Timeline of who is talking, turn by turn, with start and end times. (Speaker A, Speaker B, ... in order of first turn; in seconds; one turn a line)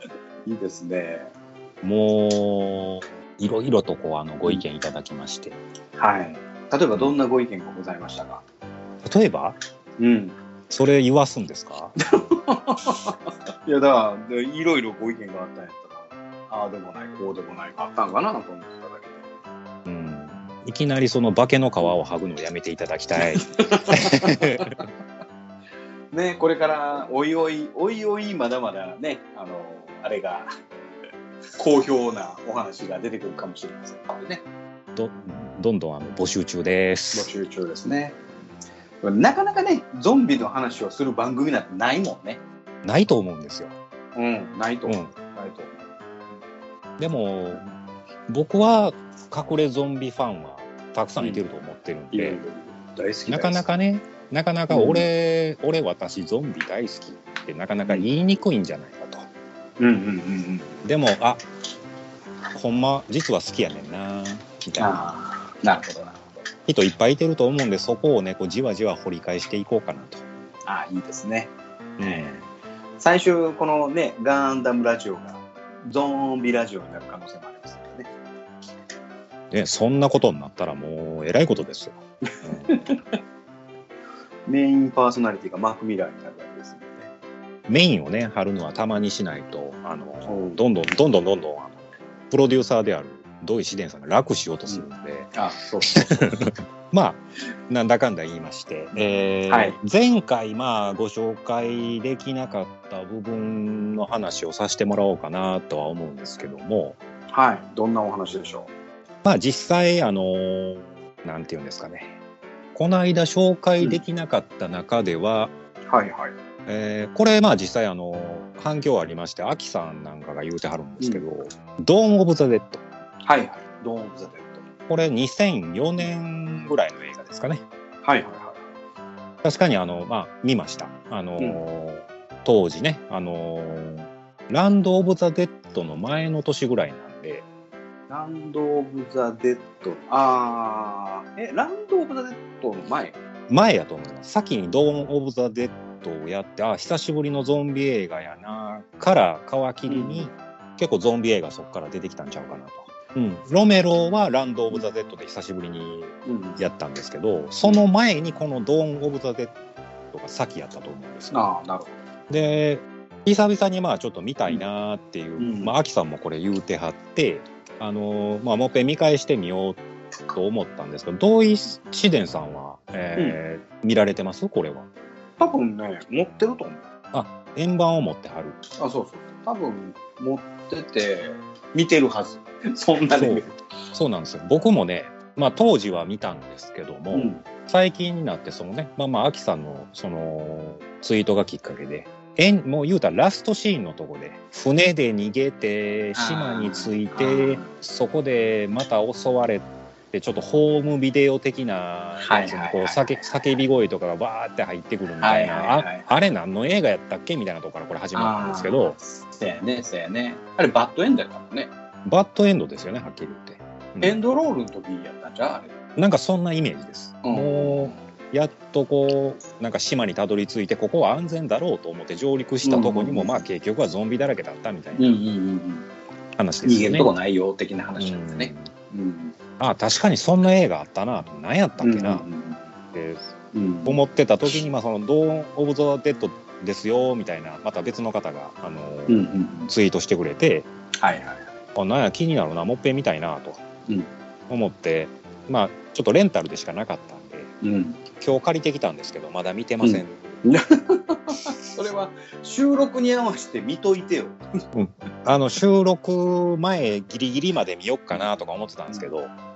Speaker A: 0.5-1.3
Speaker B: 1.8-5.6
Speaker A: 6.0-8.4
Speaker B: 9.0-9.6
Speaker A: 10.0-10.3
Speaker B: 10.7-11.9
Speaker A: 12.0-19.3
Speaker B: 19.8-24.8
Speaker A: 23.4-24.8
Speaker A: 26.1-30.5
Speaker A: 31.6-34.4
Speaker B: 34.9-37.3
Speaker A: 37.1-38.2
Speaker A: 39.0-42.4
Speaker B: 42.8-43.8
Speaker A: 44.1-45.9
Speaker B: 44.9-45.1
Speaker B: 47.0-47.6
Speaker B: 48.3-52.4
Speaker A: 52.1-53.6
Speaker B: 53.3-59.3
Speaker A: 54.7-55.1
Speaker A: 59.8-60.8
Speaker B: 60.8-61.4
Speaker B: 62.5-65.0
Speaker A: 64.8-66.3
Speaker B: 66.7-70.2
Speaker A: 70.7-72.4
Speaker B: 72.0-72.4
Speaker A: 73.0-78.1
Speaker B: 79.5-82.9
Speaker A: 82.7-83.2
Speaker A: 84.5-87.1
Speaker B: 87.7-107.0
Speaker A: 90.2-90.6
Speaker A: 94.7-96.4
Speaker A: 99.5-99.8
Speaker A: 107.3-108.7
Speaker B: 109.2-112.2
Speaker B: 112.7-115.5
Speaker A: 115.9-116.3
Speaker B: 116.7-122.8
Speaker A: 123.2-124.7
Speaker B: 124.9-127.6
Speaker A: 128.0-128.6
Speaker B: 129.4-137.4
Speaker A: 138.1-143.2
Speaker B: 143.5-159.5
Speaker A: 149.9-150.3
Speaker A: 156.2-156.6
Speaker B: 160.1-161.4
Speaker A: 161.3-162.0
Speaker B: 162.3-169.8
Speaker A: 165.4-165.7
Speaker B: 170.3-174.9
Speaker A: 175.4-176.8
Speaker B: 177.1-178.6
Speaker A: 178.8-183.5
Speaker B: 183.1-208.9
Speaker A: 187.1-187.4
Speaker A: 196.1-197.7
Speaker A: 202.2-203.5
Speaker A: 205.2-206.1
Speaker A: 208.1-211.7
Speaker B: 212.0-214.2
Speaker A: 214.0-215.7
Speaker B: 215.9-225.2
Speaker A: 217.2-218.0
Speaker A: 222.6-223.3
Speaker A: 224.9-225.8
Speaker B: 226.3-227.1
Speaker A: 226.6-229.3
Speaker B: 228.0-228.7
Speaker B: 229.6-232.2
Speaker A: 231.8-232.6
Speaker B: 232.9-233.3
Speaker A: 233.5-234.0
Speaker B: 233.8-240.7
Speaker A: 239.1-239.7
Speaker A: 241.0-241.4
Speaker B: 241.7-243.6
Speaker B: 244.5-247.5
Speaker A: 247.6-248.0
Speaker B: 248.2-250.4
Speaker A: 249.8-254.4
Speaker B: 254.7-259.3